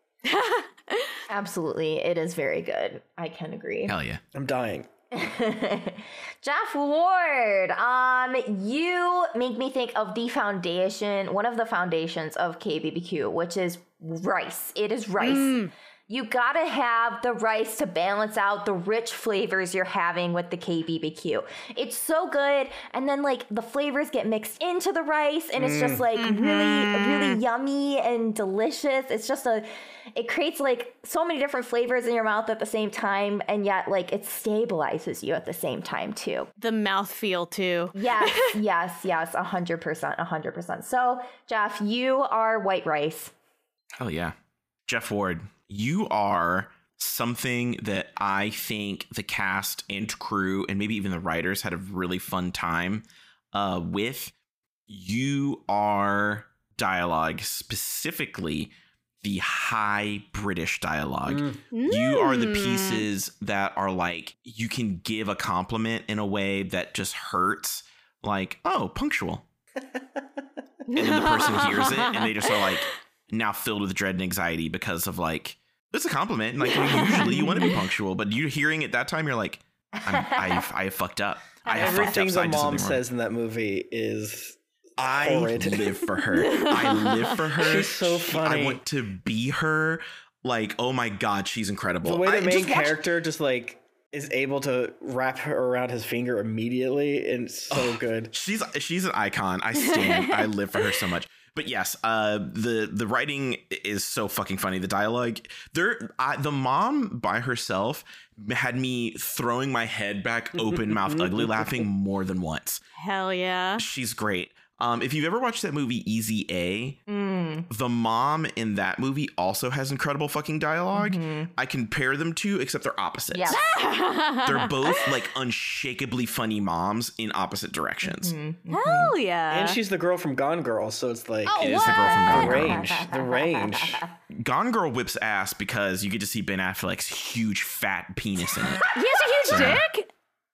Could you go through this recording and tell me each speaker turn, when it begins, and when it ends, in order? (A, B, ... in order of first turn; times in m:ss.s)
0:00.2-0:01.2 A
0:01.3-0:04.0 B
0:03.9-0:04.2 C
0:04.3-0:04.9 D
0:05.1-0:36.5 B
0:15.2-0:15.7 A
0:25.6-0:26.1 D
0:26.2-0:27.4 A
0:36.6-0:38.6 A
0:38.0-0:43.3 B
0:44.0-0:44.3 C
0:44.9-0:54.3 C
0:54.9-0:58.7 C
0:59.2-1:09.4 C
1:01.3-1:01.6 D
1:01.7-1:03.1 A
1:10.9-1:23.0 C
1:11.0-1:12.7 A
1:16.8-1:17.7 A
1:17.2-1:17.8 B
1:20.0-1:20.7 B
1:21.7-1:22.1 B
1:21.7-1:25.9 D
1:25.0-1:33.0 C
1:26.3-1:27.4 A
1:27.6-1:28.8 D
1:32.0-1:38.3 D
1:37.7-1:52.8 C
1:39.8-1:41.0 A
1:51.1-1:51.7 D
1:53.0-1:53.8 A
1:53.8-1:57.0 C
1:57.1-1:57.7 B
1:57.7-2:03.6 C
2:00.9-2:01.5 B
2:03.3-2:03.6 B
2:03.5-2:05.1 A
2:04.4-2:08.4 C
2:08.0-2:09.1 B
2:08.7-2:09.8 A
2:09.5-2:14.0 D
2:11.5-2:12.6 A
2:11.6-2:13.0 C
2:12.3-2:14.1 B
2:14.3-2:18.9 C
2:18.9-2:20.1 A
2:19.4-2:19.8 C